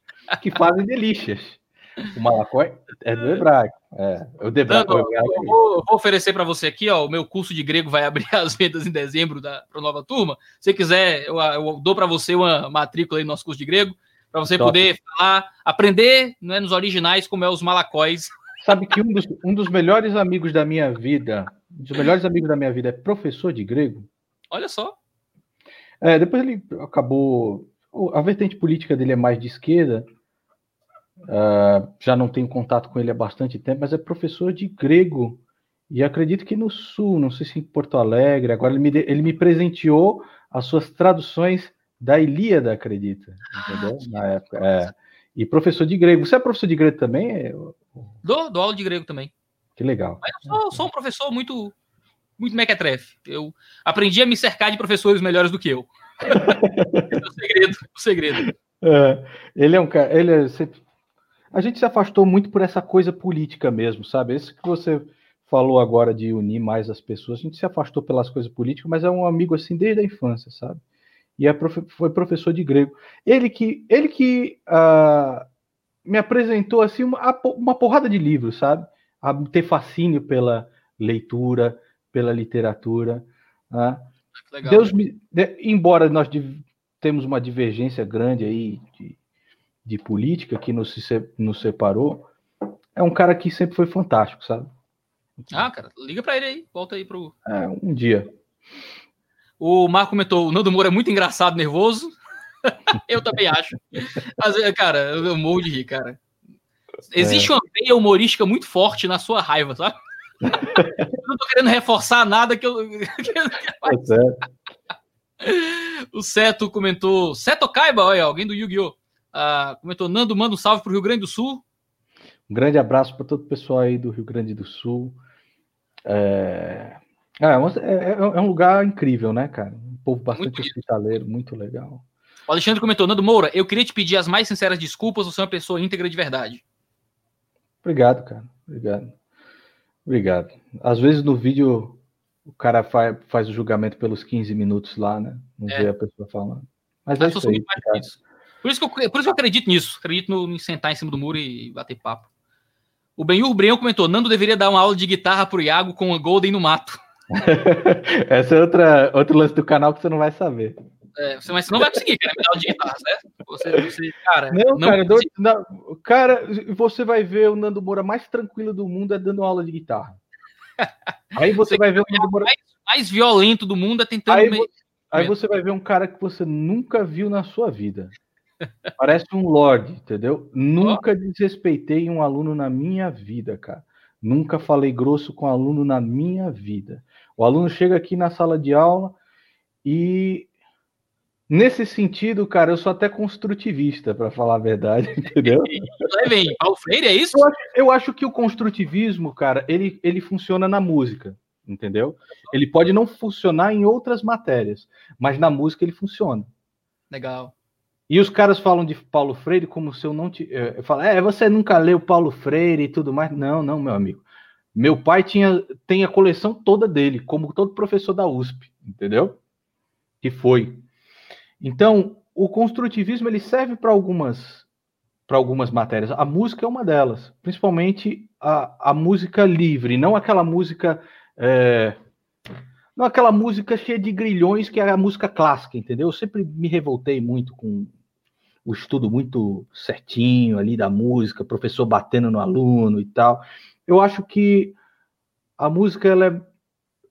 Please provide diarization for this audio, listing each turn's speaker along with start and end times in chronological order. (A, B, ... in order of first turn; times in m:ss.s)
0:00.4-0:05.6 A
0:04.7-0:18.3 B
0:14.5-0:14.8 A
0:18.6-0:24.1 A
0:24.5-0:25.0 B
0:26.0-0:30.1 A
0:31.3-0:48.0 A
0:43.5-0:44.9 B
0:48.2-0:49.3 B
0:49.8-0:50.8 A
0:50.2-0:51.7 B
0:52.4-0:58.5 B
0:56.3-0:57.2 A
0:58.8-1:00.8 A
1:01.5-1:10.8 A
1:11.4-1:15.5 A
1:16.0-1:24.1 A
1:24.4-1:24.9 B
1:24.6-1:29.2 A
1:29.8-1:32.3 A
1:33.0-1:34.7 A
1:35.5-1:37.4 B
1:37.4-1:38.3 A
1:39.6-1:46.2 B
1:47.1-1:54.1 B
1:47.2-1:47.5 A
1:50.6-1:51.1 A
1:53.8-1:54.4 A
1:55.4-2:01.6 B
2:02.5-2:05.2 A
2:06.0-2:12.0 A
2:10.3-2:10.8 B
2:12.5-2:16.6 B
2:17.8-2:19.1 A
2:20.1-2:28.0 A
2:27.2-2:32.3 B
2:33.2-2:37.0 B
2:37.3-2:40.8 A
2:41.2-2:45.3 B
2:44.5-2:50.2 A
2:51.4-2:52.5 A
2:51.7-2:55.3 B
2:54.3-2:58.1 A
2:59.0-3:09.2 A
3:09.8-3:10.5 A
3:11.5-3:16.3 A
3:15.6-3:17.5 B
3:17.3-3:26.5 A
3:27.1-3:27.5 B
3:28.1-3:39.4 A
3:40.2-3:40.8 A
3:41.6-3:44.7 A
3:45.3-3:52.0 A
3:53.0-3:57.9 A
3:58.6-4:04.8 A
4:05.6-4:06.5 A